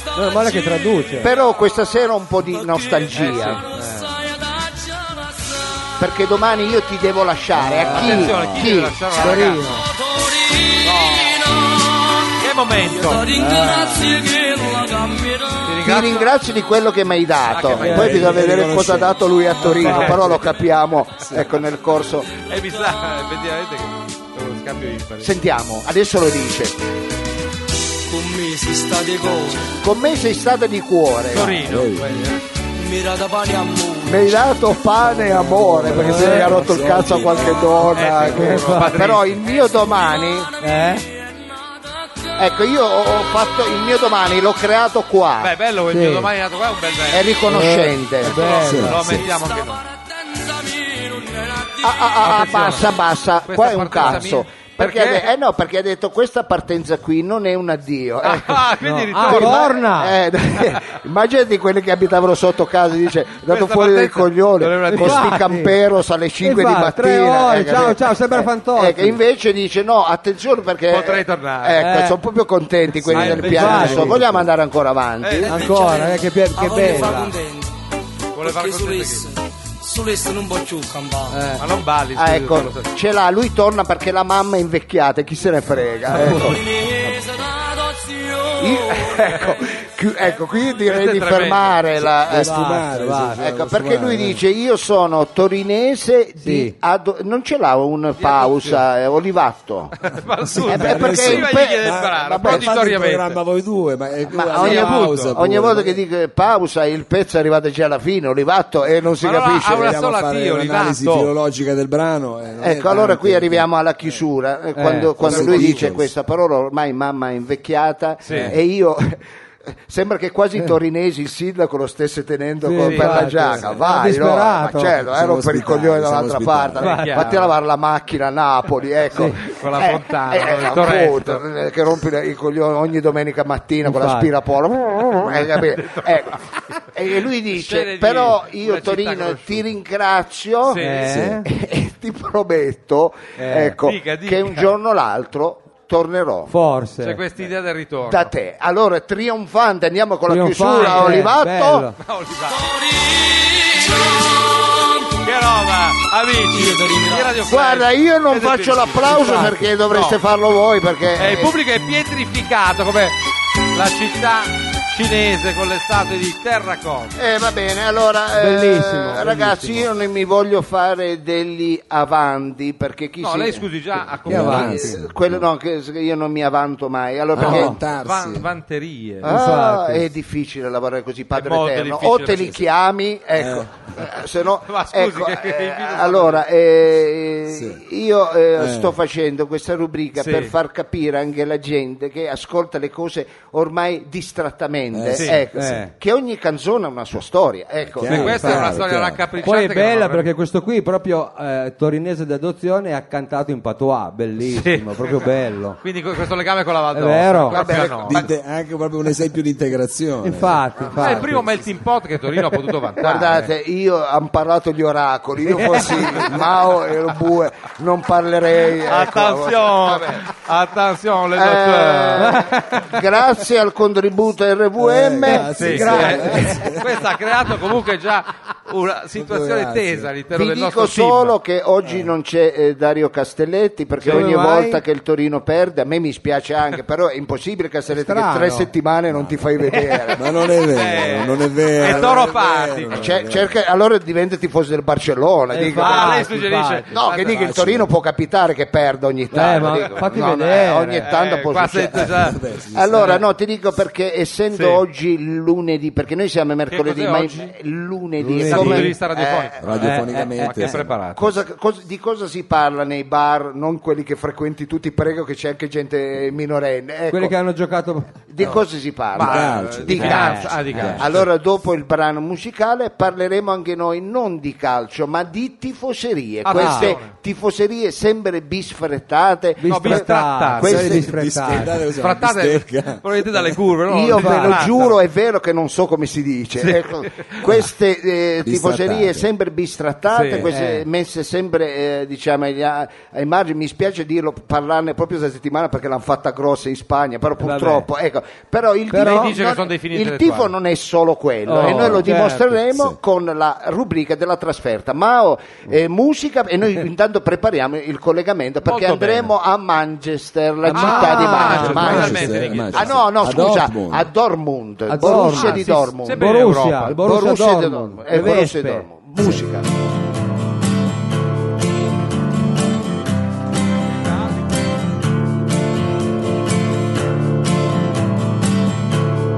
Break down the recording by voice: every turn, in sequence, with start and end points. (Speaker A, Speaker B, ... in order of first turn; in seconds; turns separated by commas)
Speaker A: 0.1-1.3, Speaker B: 1.2-3.6, Speaker C: 3.1-3.6, Speaker A: 3.7-4.2, Speaker B: 6.0-9.0, Speaker A: 7.5-8.6, Speaker C: 7.8-9.7, Speaker A: 9.1-9.9, Speaker C: 10.8-11.5, Speaker C: 12.4-13.4, Speaker A: 13.3-14.2, Speaker C: 15.6-16.3, Speaker B: 15.8-22.3, Speaker C: 17.5-18.4, Speaker D: 17.8-19.2, Speaker A: 17.8-18.3, Speaker A: 19.6-20.2, Speaker C: 19.8-20.6, Speaker C: 22.3-25.4, Speaker B: 25.2-26.8, Speaker E: 28.1-29.5, Speaker B: 29.8-31.6, Speaker C: 31.3-32.4, Speaker D: 31.5-32.1, Speaker E: 32.9-34.3, Speaker B: 34.0-40.5, Speaker D: 35.0-38.5, Speaker A: 35.9-36.6, Speaker C: 37.9-39.6, Speaker A: 38.2-39.1, Speaker A: 40.6-41.1, Speaker B: 42.4-45.5, Speaker C: 45.4-47.4, Speaker A: 45.9-46.3, Speaker B: 47.1-48.4, Speaker A: 47.5-49.3, Speaker C: 48.2-49.8, Speaker D: 48.6-49.2, Speaker B: 51.8-58.7, Speaker C: 52.2-52.9, Speaker C: 53.5-55.3, Speaker C: 58.2-59.8, Speaker A: 58.8-60.2, Speaker B: 59.2-75.6, Speaker C: 63.4-65.4, Speaker A: 64.9-65.8, Speaker A: 66.4-69.2, Speaker C: 70.9-71.8, Speaker A: 71.8-72.2, Speaker D: 72.9-74.5, Speaker C: 73.1-74.1, Speaker A: 73.3-74.2, Speaker C: 75.2-76.0, Speaker A: 75.5-77.3, Speaker E: 76.5-77.6, Speaker C: 78.3-79.3, Speaker E: 78.4-79.3, Speaker E: 79.9-81.3, Speaker A: 81.3-81.6, Speaker C: 81.6-82.9, Speaker B: 82.2-86.6, Speaker A: 86.1-86.6, Speaker B: 88.6-92.6, Speaker C: 90.8-91.8, Speaker D: 92.0-94.4, Speaker A: 92.3-93.4, Speaker B: 93.4-99.9, Speaker A: 96.4-96.7, Speaker C: 98.2-98.8, Speaker C: 100.0-103.4, Speaker D: 100.4-106.0, Speaker B: 100.7-102.7, Speaker B: 104.3-109.9, Speaker C: 104.5-105.3, Speaker C: 109.2-111.3, Speaker D: 109.7-113.7, Speaker B: 112.6-119.2, Speaker A: 114.7-115.6, Speaker D: 115.2-116.1, Speaker C: 118.2-118.5, Speaker D: 118.3-118.6, Speaker B: 119.8-146.5, Speaker A: 122.6-125.0, Speaker C: 122.8-123.3, Speaker D: 125.0-127.0, Speaker A: 126.8-127.3, Speaker C: 126.8-127.5, Speaker A: 129.1-129.4, Speaker C: 129.5-131.4, Speaker A: 133.8-134.3, Speaker C: 135.7-136.1, Speaker C: 137.5-139.7, Speaker C: 140.6-141.2, Speaker A: 140.8-141.4, Speaker D: 141.0-141.4, Speaker A: 143.4-143.8, Speaker C: 143.8-144.7, Speaker A: 146.5-147.2, Speaker C: 147.0-148.3, Speaker B: 148.1-151.9, Speaker A: 150.3-152.0, Speaker C: 150.7-151.3, Speaker C: 152.0-152.8, Speaker C: 155.2-160.2, Speaker E: 156.7-157.1, Speaker B: 157.4-161.5, Speaker A: 159.2-159.5, Speaker C: 161.2-163.2, Speaker C: 163.7-167.2, Speaker B: 167.2-173.7, Speaker A: 168.4-169.8, Speaker C: 173.2-174.8, Speaker D: 174.2-175.4, Speaker A: 174.3-175.0, Speaker B: 174.3-177.8, Speaker D: 177.3-178.5, Speaker A: 177.4-177.8, Speaker C: 177.9-179.3, Speaker A: 179.2-180.1, Speaker B: 179.2-198.5, Speaker C: 181.3-182.6, Speaker D: 183.4-183.7, Speaker C: 184.7-186.4, Speaker D: 187.5-187.8, Speaker D: 188.6-188.9, Speaker C: 190.2-190.5, Speaker D: 194.9-195.8, Speaker A: 195.5-195.9, Speaker D: 197.8-199.2, Speaker C: 198.0-200.3, Speaker A: 198.1-198.8, Speaker A: 199.4-205.8, Speaker C: 204.4-208.3, Speaker A: 206.9-207.6, Speaker B: 207.5-208.2, Speaker D: 207.7-211.5, Speaker A: 210.2-211.4, Speaker C: 210.9-213.3, Speaker B: 213.0-220.2, Speaker A: 215.5-216.2, Speaker C: 218.7-222.5, Speaker B: 221.3-226.4, Speaker A: 222.2-222.9, Speaker D: 224.8-226.9, Speaker A: 225.2-226.7, Speaker C: 225.6-231.4, Speaker D: 229.1-230.1, Speaker B: 230.3-240.2, Speaker A: 234.0-234.8, Speaker A: 237.9-238.7, Speaker D: 239.1-239.4, Speaker D: 240.1-243.6, Speaker C: 240.6-243.1, Speaker B: 242.9-246.3, Speaker A: 245.5-246.9, Speaker C: 245.7-247.5, Speaker B: 246.9-259.6, Speaker D: 247.1-247.9, Speaker A: 249.3-251.1, Speaker C: 249.5-250.5, Speaker C: 251.0-252.4, Speaker D: 251.9-253.2, Speaker C: 254.5-254.8, Speaker C: 256.7-257.5, Speaker A: 258.2-258.9, Speaker C: 258.4-261.4, Speaker D: 259.6-260.9, Speaker A: 259.8-260.8, Speaker B: 261.1-267.4, Speaker A: 267.1-268.1, Speaker B: 268.3-280.1, Speaker C: 269.1-271.2, Speaker D: 269.1-271.2, Speaker A: 270.0-271.0, Speaker C: 276.4-277.1, Speaker A: 276.5-277.0, Speaker A: 279.6-281.8, Speaker C: 279.7-281.0, Speaker B: 280.6-281.0, Speaker D: 280.6-283.6, Speaker C: 282.0-285.0, Speaker B: 283.9-316.3, Speaker A: 284.1-284.7, Speaker C: 286.6-287.4, Speaker D: 288.4-289.2, Speaker C: 290.1-290.5, Speaker A: 290.4-290.9, Speaker A: 297.4-297.9, Speaker A: 298.9-299.3, Speaker C: 299.0-300.5, Speaker A: 301.4-302.5, Speaker D: 301.6-302.1, Speaker D: 302.6-303.0, Speaker C: 308.6-309.3, Speaker A: 310.6-312.4, Speaker C: 310.7-313.0, Speaker D: 311.7-314.1, Speaker A: 314.9-319.4, Speaker C: 315.0-317.0, Speaker B: 316.9-319.7